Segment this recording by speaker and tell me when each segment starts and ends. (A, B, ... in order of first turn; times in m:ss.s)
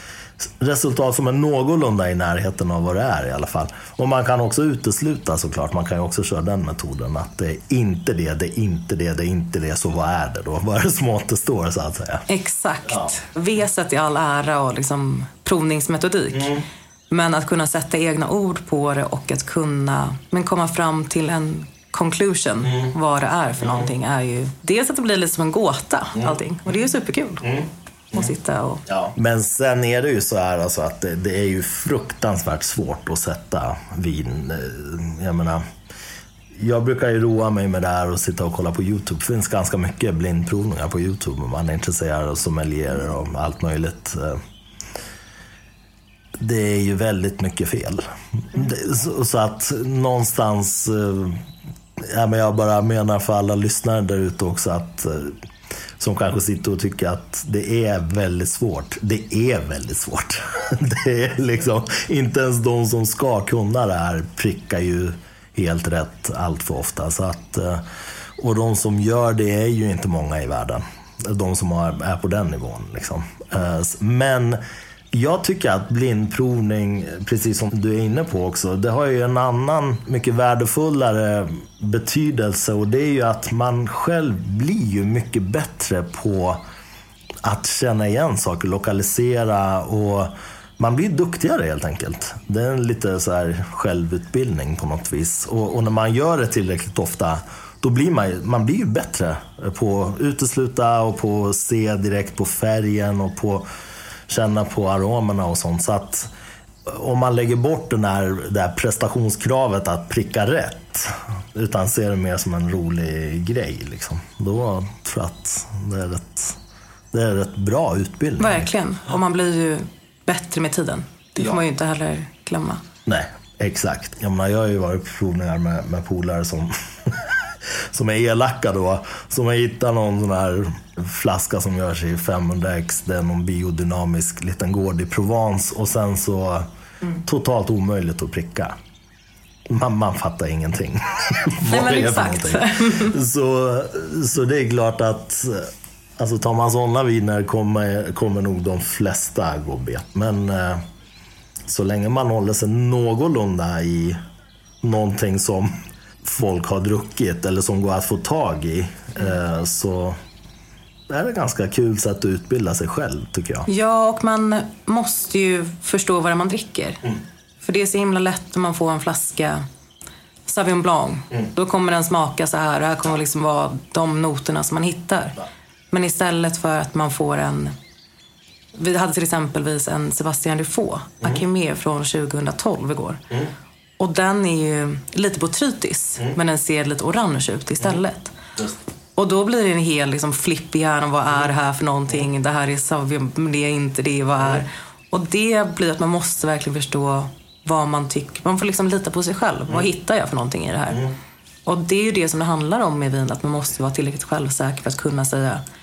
0:00.4-0:12.2 A
0:12.3-0:27.5 B
0:28.1-0:28.8 B
0:28.9-0:35.6 A
0:36.6-0:44.4 A
0:46.4-0:51.4 A
0:52.0-0:55.3 A
0:56.0-1:07.8 A
1:08.4-1:14.6 A
1:15.1-1:26.6 A
1:27.4-1:43.7 A
1:44.3-1:46.3 A
1:46.9-1:56.6 A
1:57.1-1:58.7 A
1:58.4-2:02.8 B
2:03.0-2:07.3 A
2:07.9-2:16.6 A
2:17.2-2:18.7 A
2:19.7-2:30.8 A
2:21.6-2:23.2 B
2:31.7-2:34.2 A
2:34.8-2:35.7 A
2:36.2-2:40.2 A
2:41.1-2:43.7 A
2:43.7-2:47.0 B
2:47.6-2:49.6 B
2:50.4-2:55.4 B
2:55.9-2:57.7 B
2:58.7-3:03.2 B
3:04.0-3:08.3 B
3:09.2-3:21.1 B
3:21.6-3:25.6 B